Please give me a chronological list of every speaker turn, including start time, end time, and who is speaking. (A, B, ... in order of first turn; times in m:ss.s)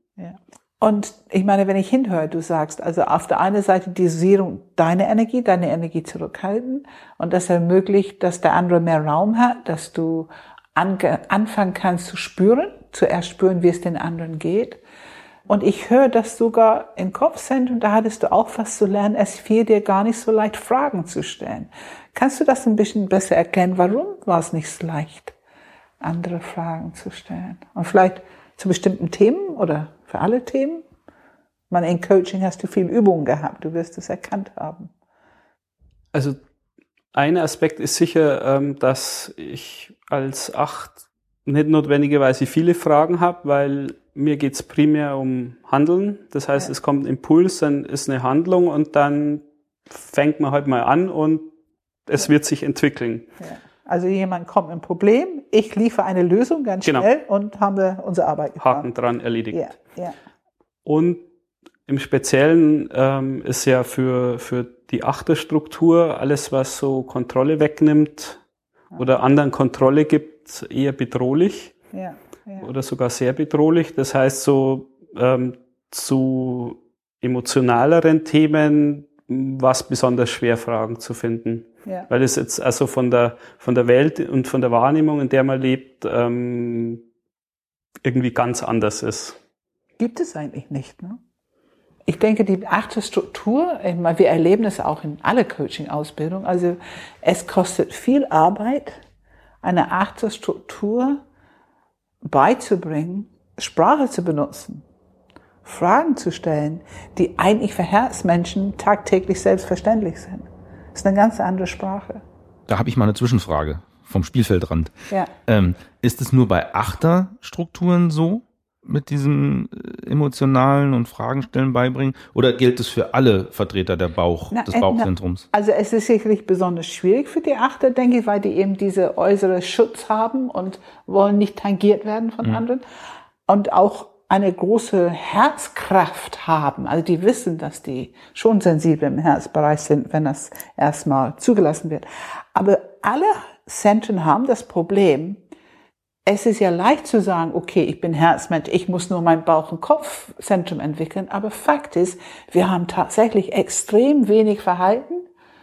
0:00.2-0:14.8 A
0:15.5-0:25.4 A
0:26.0-0:30.8 A
0:31.7-0:34.9 A
0:36.1-0:36.4 B
0:37.1-0:51.5 B
0:52.1-0:53.2 B
0:53.4-0:58.8 A
0:56.8-0:57.1 B
0:58.6-0:59.8 B
0:59.5-1:00.1 A
1:00.8-1:01.2 B
1:01.8-1:08.4 B
1:09.0-1:11.7 B
1:11.9-1:12.6 A
1:12.6-1:27.0 B
1:28.0-1:29.4 B
1:30.0-1:31.2 A
1:32.1-1:39.0 A
1:39.6-1:41.2 A
1:42.3-1:44.8 A
1:45.6-1:52.2 A
1:52.7-1:54.9 C
1:55.5-2:05.5 C
2:04.5-2:12.8 A
2:13.5-2:25.4 A
2:26.3-2:35.3 A